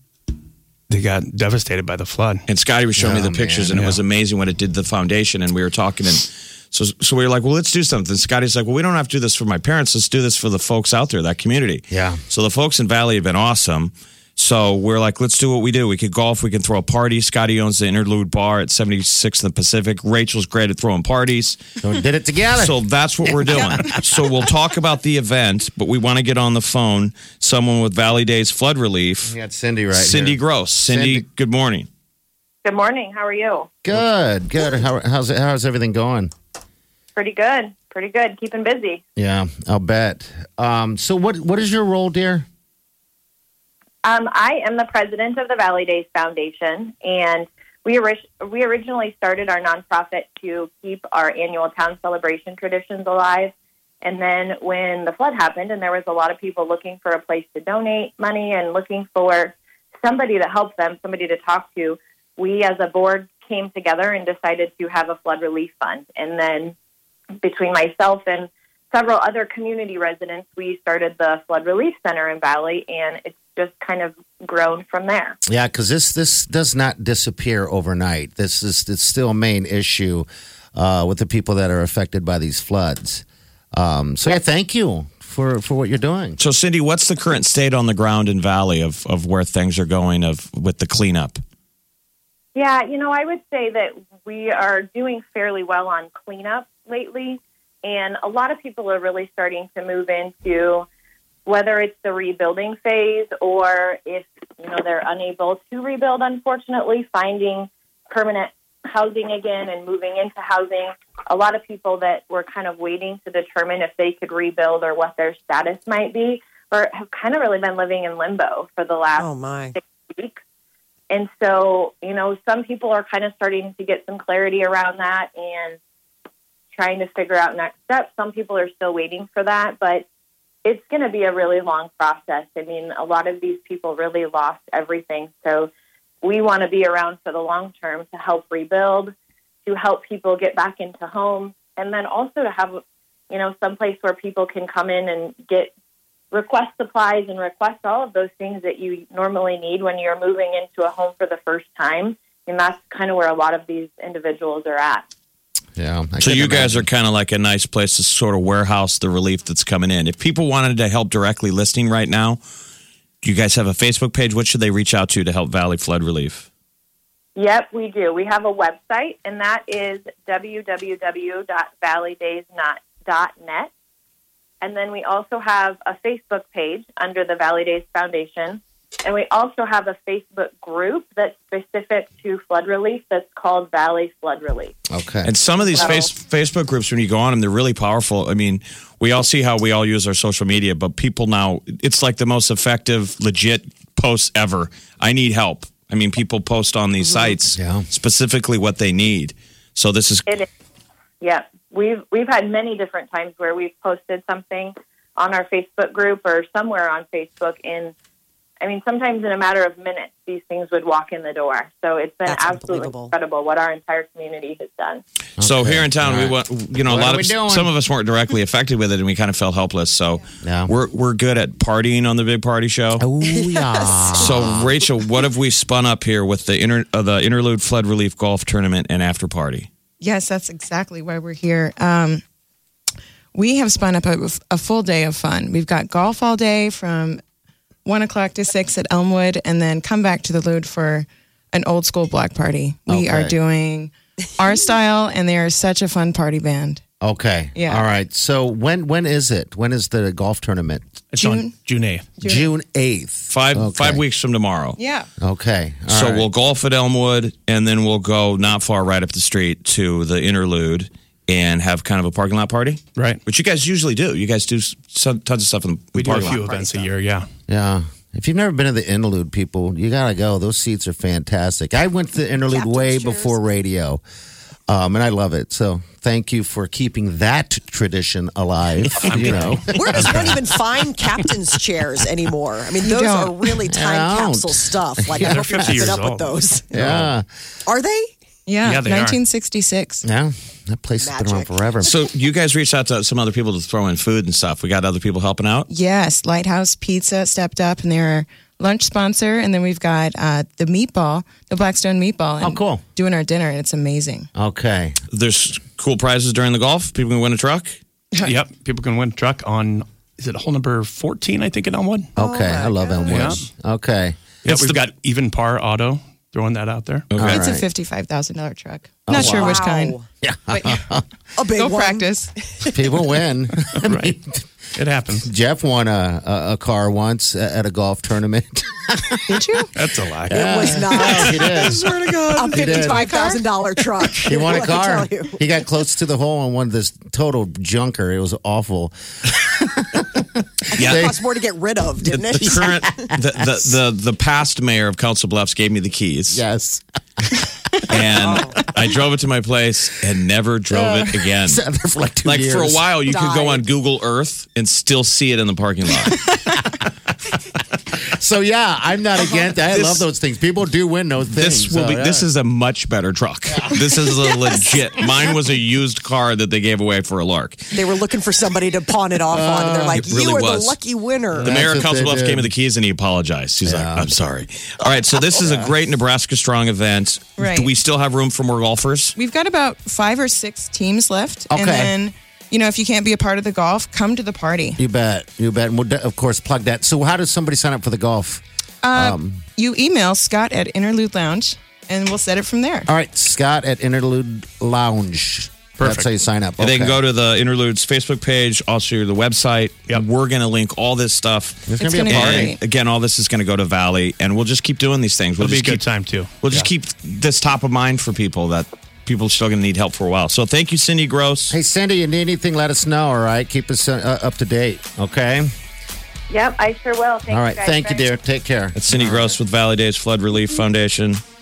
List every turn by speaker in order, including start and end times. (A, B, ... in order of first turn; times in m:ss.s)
0:00.9-0:02.4 A
0:02.5-0:21.6 B
0:03.0-0:03.8 C
0:03.7-0:04.0 A
0:11.9-0:12.2 C
0:21.8-0:24.3 C
0:22.6-0:29.4 B
0:29.3-0:31.2 C
0:29.9-0:31.9 B
0:32.6-0:33.8 D
0:33.8-0:36.3 C
0:37.2-0:39.0 D
0:39.2-0:42.5 C
0:44.0-1:06.8 D
1:07.4-1:15.4 D
1:15.5-1:26.4 C
1:26.4-1:31.4 B
1:32.6-1:40.9 D
1:41.5-2:00.4 D
1:59.2-1:59.8 E
2:01.1-2:05.8 D
2:06.7-2:10.1 D
2:10.6-2:15.7 D
2:16.2-2:19.1 D
2:19.7-2:25.7 D
2:26.3-2:35.0 D
2:35.8-2:36.9 C
2:36.2-2:42.4 B
2:43.2-2:46.5 B
2:47.4-2:53.7 D
2:54.6-3:04.8 D
3:04.9-3:05.3 C
3:05.2-3:20.3 B
3:05.8-3:06.1 D
3:17.5-3:17.9 C
3:21.2-3:27.9 D
3:28.6-3:35.0 D
3:32.2-3:33.1 E
3:35.4-3:37.7 C
3:35.4-3:43.0 B
3:40.4-3:40.7 C
3:43.0-3:44.8 C
3:43.3-3:44.5 E
3:44.2-3:49.7 B
3:50.0-3:52.2 F
3:53.3-3:57.2 F
3:57.8-4:06.8 F
4:02.9-4:03.4 C
4:07.0-4:10.9 C
4:07.6-4:07.9 F
4:11.1-4:12.2 A
4:11.2-4:11.5 F
4:12.2-4:12.5 F
4:12.2-4:14.0 C
4:13.3-4:14.8 B
4:14.8-4:15.1 F
4:15.2-4:16.3 C
4:15.9-4:26.5 B
4:23.0-4:23.2 A
4:26.0-4:27.3 A
4:26.2-4:26.9 E
4:27.5-4:34.0 C
4:32.5-4:33.4 E
4:34.7-4:40.4 C
4:39.0-4:40.4 A
4:39.7-4:47.1 E
4:42.8-4:43.3 F
4:43.7-4:46.0 C
4:45.1-4:47.0 A
4:46.7-4:47.3 C
4:47.7-4:48.1 E
4:48.5-4:50.0 F
4:48.6-4:49.2 A
4:50.0-4:52.0 C
4:51.0-4:51.6 E
4:51.8-4:55.7 B
4:55.7-5:04.3 F
5:02.4-5:02.8 C
5:04.4-5:05.0 C
5:05.1-5:07.8 B
5:08.2-5:12.1 A
5:12.2-5:14.2 C
5:12.2-5:13.3 E
5:13.1-5:13.4 A
5:14.4-5:17.1 A
5:14.5-5:14.8 B
5:17.1-5:17.4 B
5:17.2-5:17.6 C
5:17.2-5:20.0 F
5:19.1-5:19.6 C
5:19.1-5:20.0 E
5:20.2-5:21.0 C
5:20.5-5:20.8 F
5:21.4-5:22.7 E
5:21.6-5:22.3 F
5:22.7-5:24.4 C
5:23.8-5:24.2 A
5:24.8-5:25.3 A
5:25.2-5:29.2 C
5:29.3-5:29.7 F
5:29.8-5:32.2 A
5:30.3-5:33.1 C
5:30.3-5:31.8 E
5:32.0-5:33.4 F
5:32.3-5:35.4 E
5:34.2-5:40.3 C
5:40.7-5:43.1 E
5:40.8-5:41.1 B
5:40.8-5:41.2 C
5:42.0-5:46.4 B
5:42.4-5:43.7 C
5:46.3-5:46.8 C
5:47.9-5:51.6 B
5:48.0-5:48.5 C
5:48.2-5:48.6 E
5:50.7-5:52.9 C
5:52.2-5:56.3 B
5:53.0-5:53.6 E
5:58.0-6:02.3 C
5:59.7-6:00.1 B
6:01.3-6:07.7 B
6:03.5-6:04.4 C
6:07.7-6:11.6 E
6:09.3-6:10.2 C
6:09.9-6:10.8 B
6:11.4-6:12.5 C
6:11.4-6:19.2 B
6:13.6-6:14.1 C
6:15.4-6:15.7 C
6:17.4-6:17.7 F
6:19.2-6:24.8 F
6:21.5-6:21.9 C
6:24.8-6:28.4 C
6:28.8-6:32.9 F
6:28.9-6:29.4 C
6:32.9-6:37.0 C
6:35.8-6:36.1 A
6:36.6-6:45.9 B
6:41.7-6:42.6 C
6:41.8-6:42.6 F
6:45.4-6:46.7 A
6:46.4-6:51.6 B
6:51.5-6:55.5 C
6:56.3-6:58.1 D
6:57.3-6:59.4 C
6:58.8-7:01.2 B